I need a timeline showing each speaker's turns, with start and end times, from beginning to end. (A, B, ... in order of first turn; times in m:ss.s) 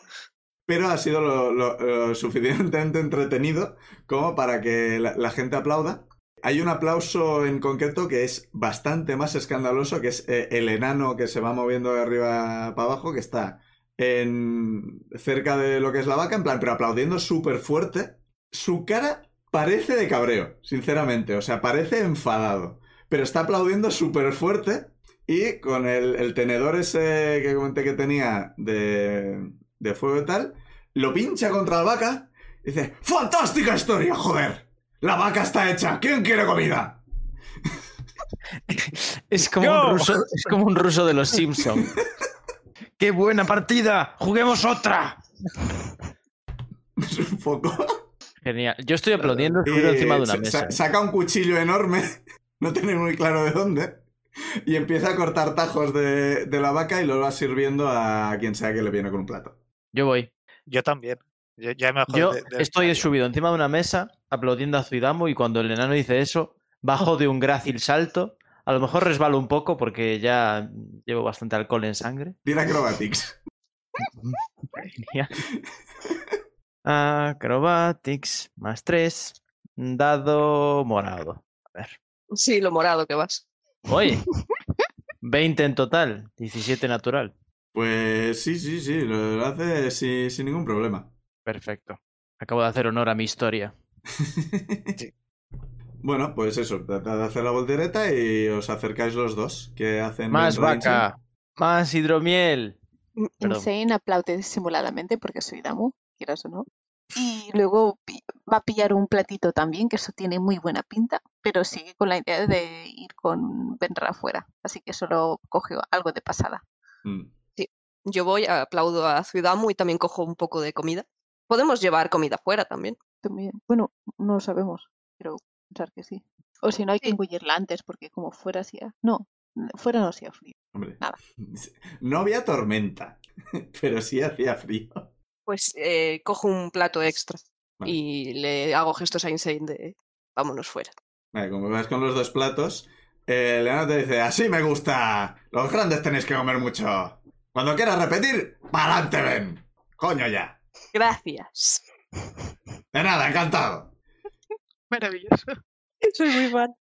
0:00.7-0:37.0 A
0:38.7-0:42.0 B
0:39.6-0:40.5 C
0:43.0-0:45.2 B
0:47.0-0:48.0 A
0:48.4-0:50.8 B
0:49.2-0:54.1 A
0:54.7-0:59.6 A
0:59.9-1:00.3 B
1:00.7-1:03.1 C
1:02.1-1:12.4 B
1:12.4-1:13.4 A
1:14.1-1:15.4 B
1:16.8-1:22.0 B
1:22.3-1:23.5 D
1:23.9-1:24.3 B
1:25.2-1:27.3 B
1:27.7-1:31.1 A
1:31.4-1:33.7 B
1:34.2-1:35.0 A
1:36.0-1:41.1 A
1:40.3-1:42.8 B
1:43.4-1:56.6 E
1:43.4-1:43.7 B
1:57.0-1:57.3 A
1:57.6-2:03.0 D
2:03.2-2:11.2 E
2:10.7-2:15.1 A
2:15.5-2:20.9 D
2:21.3-2:30.6 A
2:30.9-2:31.8 D
2:32.9-2:34.0 A
2:34.9-2:35.6 E
2:36.0-2:36.7 D